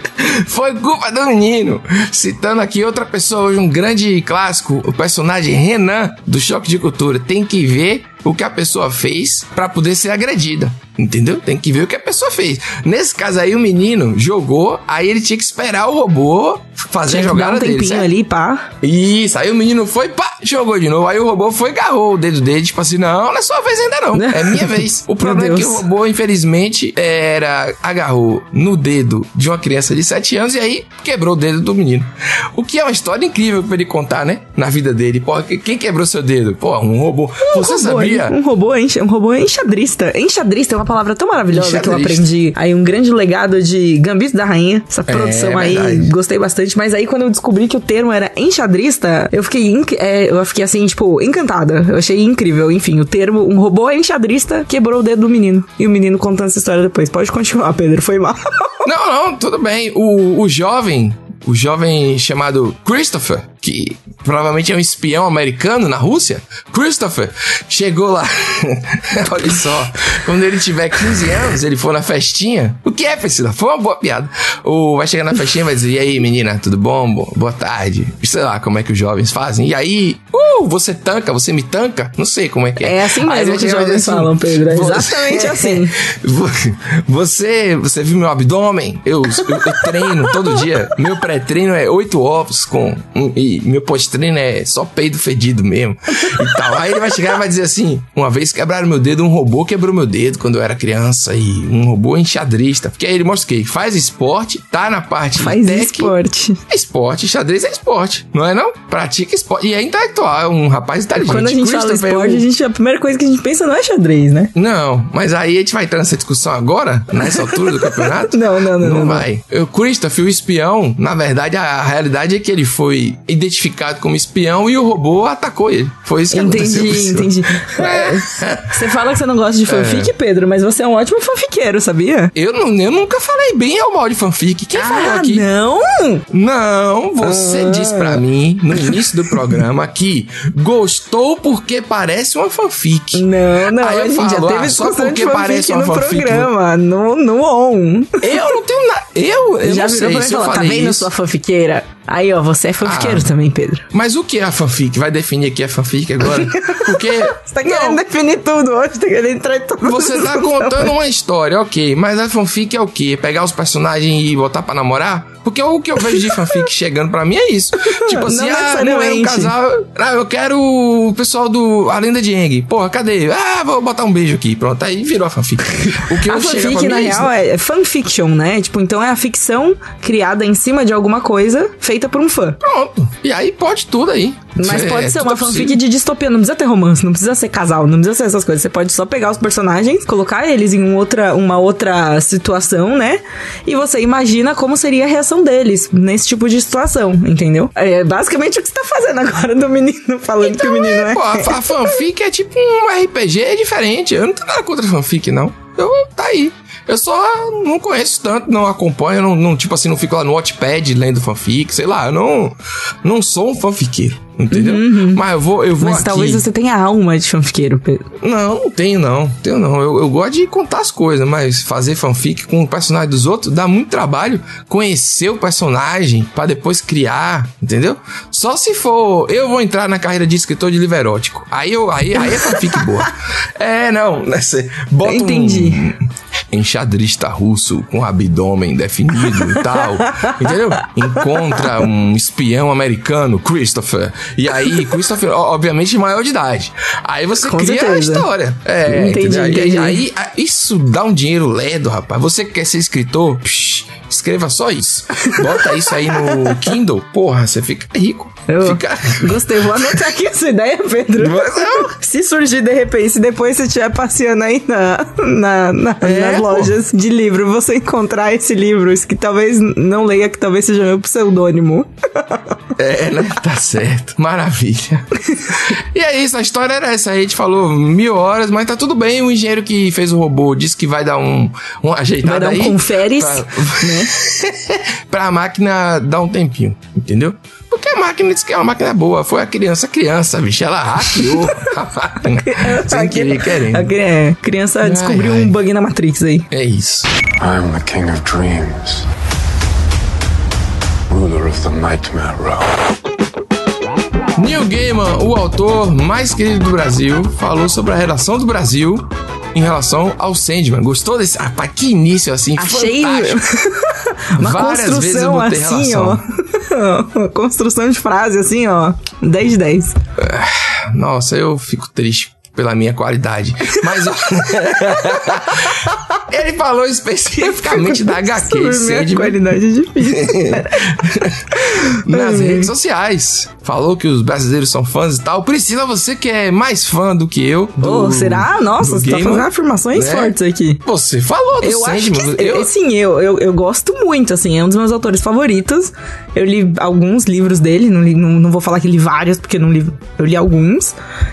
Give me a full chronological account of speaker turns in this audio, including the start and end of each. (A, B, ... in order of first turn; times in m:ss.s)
0:00.2-0:18.1 A
0:17.1-0:18.7 B
0:18.8-0:38.4 A
0:24.1-0:25.8 B
0:37.4-0:58.8 B
0:41.5-0:42.3 A
0:45.1-0:46.1 A
0:58.8-1:46.1 A
1:22.8-1:26.0 B
1:29.4-1:30.6 B
1:45.4-1:46.6 B
1:46.7-1:52.4 A
1:51.2-1:54.5 B
1:54.6-2:08.8 A
1:57.2-1:59.2 B
2:06.3-2:12.3 B
2:09.7-2:10.1 A
2:12.3-2:15.5 A
2:14.8-2:16.2 B
2:16.3-2:26.5 A
2:17.2-2:18.2 B
2:18.7-2:19.1 B
2:23.1-2:28.6 B
2:28.2-2:31.1 A
2:29.6-2:33.9 B
2:32.8-2:33.3 A
2:33.9-2:38.0 A
2:36.3-2:40.9 B
2:39.8-2:57.3 A
2:47.9-2:49.5 B
2:56.2-3:02.6 B
3:02.6-3:05.8 A
3:04.6-3:22.0 B
3:20.4-3:36.4 A
3:34.5-3:35.2 B
3:35.8-3:38.1 B
3:38.2-4:19.8 A
3:55.0-3:55.9 B
3:59.3-4:00.3 B
4:07.4-4:08.3 B
4:08.9-4:10.0 B
4:15.2-4:16.7 B
4:18.5-4:32.6 B
4:21.2-4:21.9 A
4:26.0-4:26.8 A
4:32.8-4:53.9 A
4:42.2-4:44.1 B
4:52.2-4:56.5 B
4:54.8-4:55.6 A
4:56.5-4:57.1 A
4:57.4-4:59.0 C
5:01.1-5:02.8 C
5:04.4-5:13.4 A
5:12.6-5:20.0 B
5:14.4-5:16.2 A
5:20.2-5:29.4 A
5:27.4-5:30.9 B
5:30.0-5:42.7 A
5:31.6-5:32.7 B
5:37.8-5:40.8 B
5:41.6-5:51.0 B